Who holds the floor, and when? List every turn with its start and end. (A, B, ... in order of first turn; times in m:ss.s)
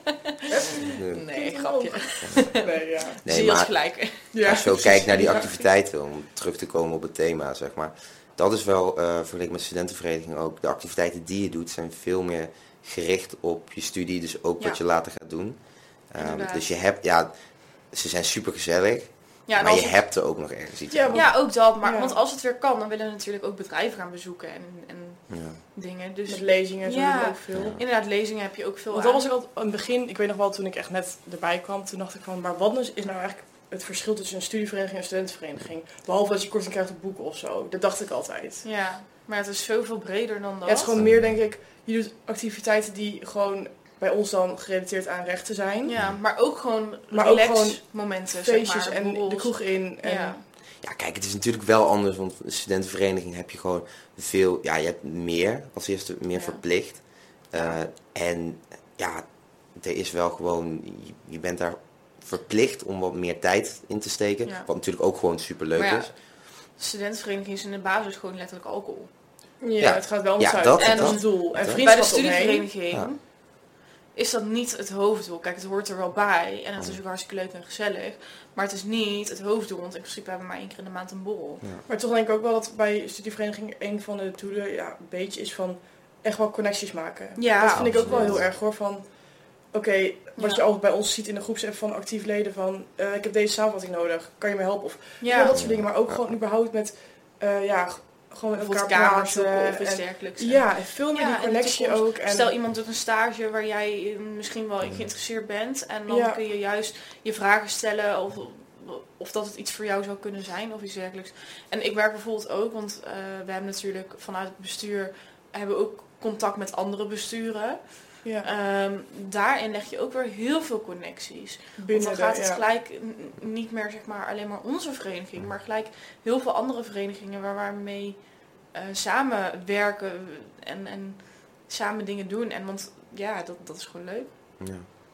0:00.5-0:03.2 A
0:00.8-0:05.7 B
0:00.8-0:01.2 C
0:02.2-0:02.6 C
0:03.2-0:21.4 C
0:04.3-0:05.5 A
0:16.2-0:16.7 B
0:19.5-0:20.0 B
0:20.9-0:22.2 A
0:21.1-0:29.2 B
0:25.3-0:25.6 C
0:26.3-0:27.8 A
0:27.5-0:27.8 C
0:28.9-0:38.6 A
0:38.6-0:41.0 B
0:40.6-0:46.0 A
0:41.0-0:41.4 C
0:45.8-0:50.4 B
0:47.1-0:50.4 A
0:50.7-1:06.1 C
0:56.3-0:57.8 B
1:04.4-1:04.7 B
1:05.8-1:09.1 B
1:09.6-1:12.7 A
1:09.8-1:11.9 C
1:10.8-1:21.6 B
1:21.9-1:42.5 A
1:27.4-1:28.4 B
1:27.7-1:28.6 C
1:30.4-1:30.6 B
1:35.2-1:35.6 B
1:35.5-1:36.2 C
1:38.5-2:14.4 B
1:44.8-1:45.1 C
1:46.1-1:46.4 A
1:58.2-1:58.5 A
2:01.8-2:02.6 A
2:14.6-2:14.9 C